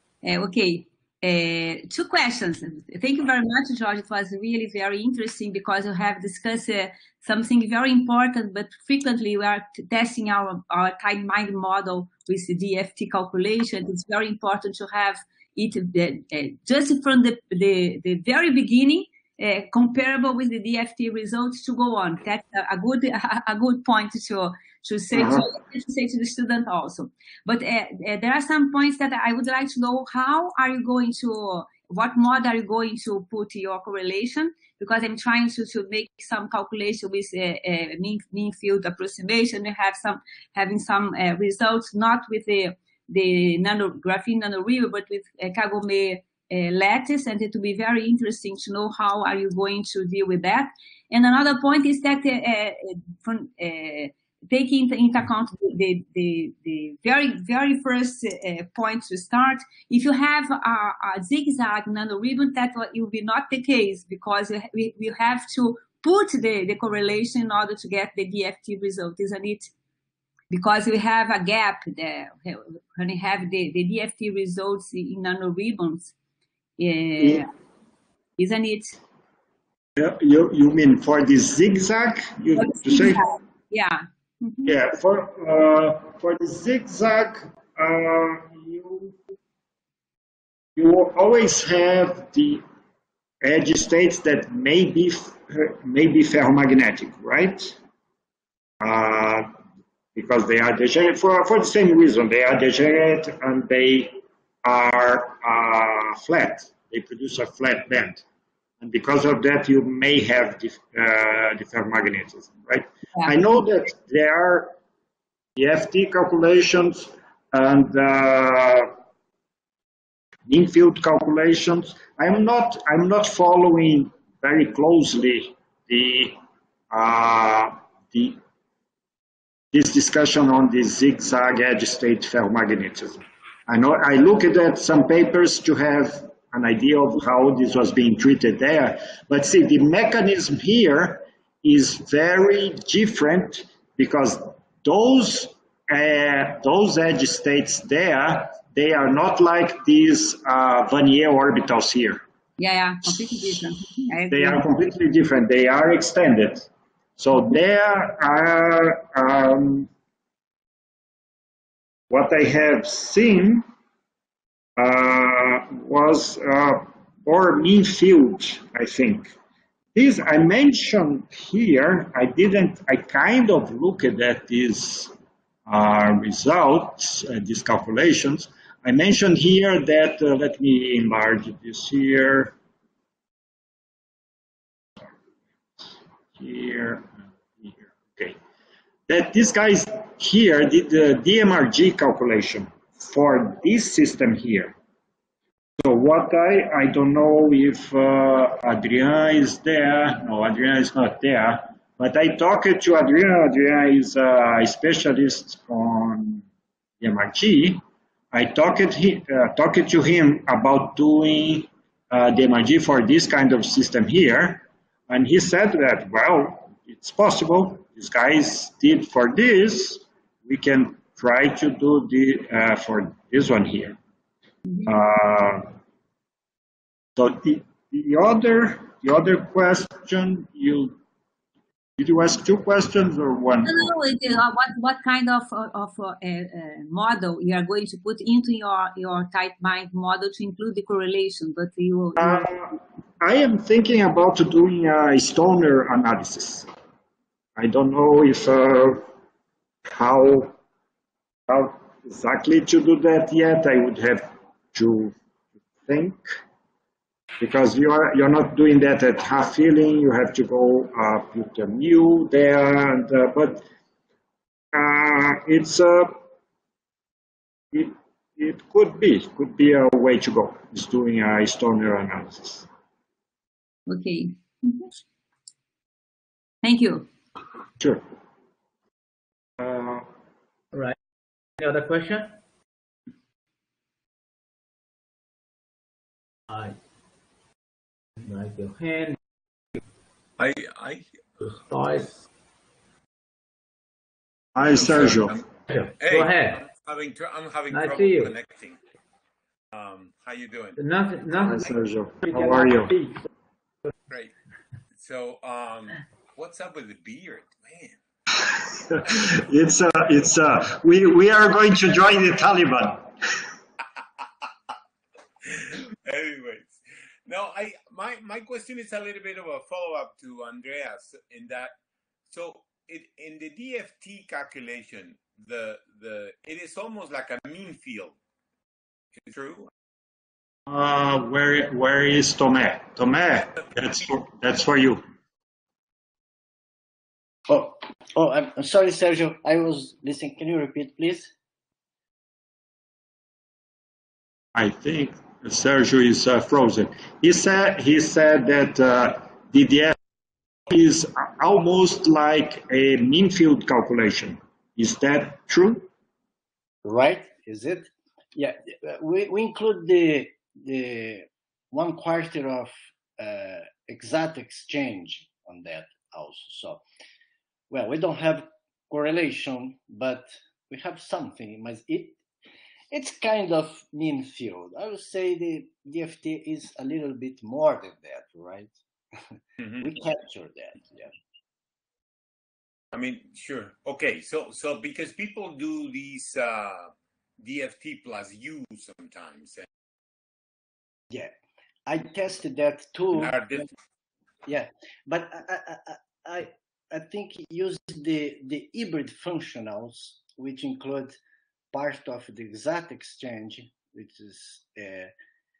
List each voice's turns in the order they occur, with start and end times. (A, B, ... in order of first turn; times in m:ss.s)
0:00.2-1:09.7 A
0:25.1-0:25.4 B
1:10.5-1:16.1 A
1:16.8-1:17.5 A
1:18.4-1:19.0 A
1:20.0-1:23.2 B
1:22.6-1:24.7 A
1:24.6-1:29.1 B
1:30.8-1:32.6 B
1:33.4-1:37.8 B
1:38.8-1:39.5 B
1:40.1-1:48.2 B
1:48.8-1:54.7 B
1:55.6-1:58.9 B
2:00.5-2:06.4 B
2:06.9-2:08.4 B
2:09.7-2:32.2 B
2:32.6-2:34.6 A
2:34.3-2:39.9 B
2:42.1-2:43.6 B
2:44.8-2:49.3 B
2:49.9-2:55.1 B
2:55.6-3:02.5 B
3:06.3-3:08.4 B
3:09.1-3:14.7 B
3:15.8-3:26.4 B
3:27.0-3:44.0 B
3:44.8-3:45.7 B
3:47.2-3:51.0 B
3:52.0-3:53.9 B
3:53.6-4:02.5 A
4:02.2-4:06.7 B
4:07.6-4:09.1 B
4:09.9-4:10.5 B
4:11.5-4:15.1 B
4:15.8-4:16.2 B
4:17.4-4:23.6 B
4:24.7-4:26.2 B
4:27.7-4:32.7 B
4:33.9-4:35.0 A
4:36.6-4:37.1 A
4:39.6-4:40.0 B
4:41.6-4:42.4 C
4:46.5-4:46.8 C
4:48.2-4:49.2 C
4:50.4-4:51.1 D
4:51.4-4:52.1 C
4:54.5-4:55.4 B
4:54.7-4:55.4 D
4:55.7-4:56.6 C
4:56.0-4:58.8 D
4:57.7-4:58.3 C
4:59.7-5:00.8 D
5:00.8-5:01.7 C
5:01.4-5:02.9 B
5:02.2-5:03.2 C
5:04.9-5:08.0 D
5:08.3-5:13.1 B
5:15.4-5:21.7 D
5:22.3-5:28.2 D
5:29.2-5:29.7 D
5:30.7-5:35.0 B
5:37.5-5:41.3 E
5:44.5-5:50.0 B
5:50.7-5:55.9 B
5:56.8-6:06.8 E
6:07.7-6:12.2 E
6:12.9-6:19.2 E
6:19.8-6:21.1 E
6:22.9-6:29.7 D
6:31.9-6:33.6 E
6:33.1-6:33.7 D
6:34.4-6:41.2 E
6:41.7-6:45.1 E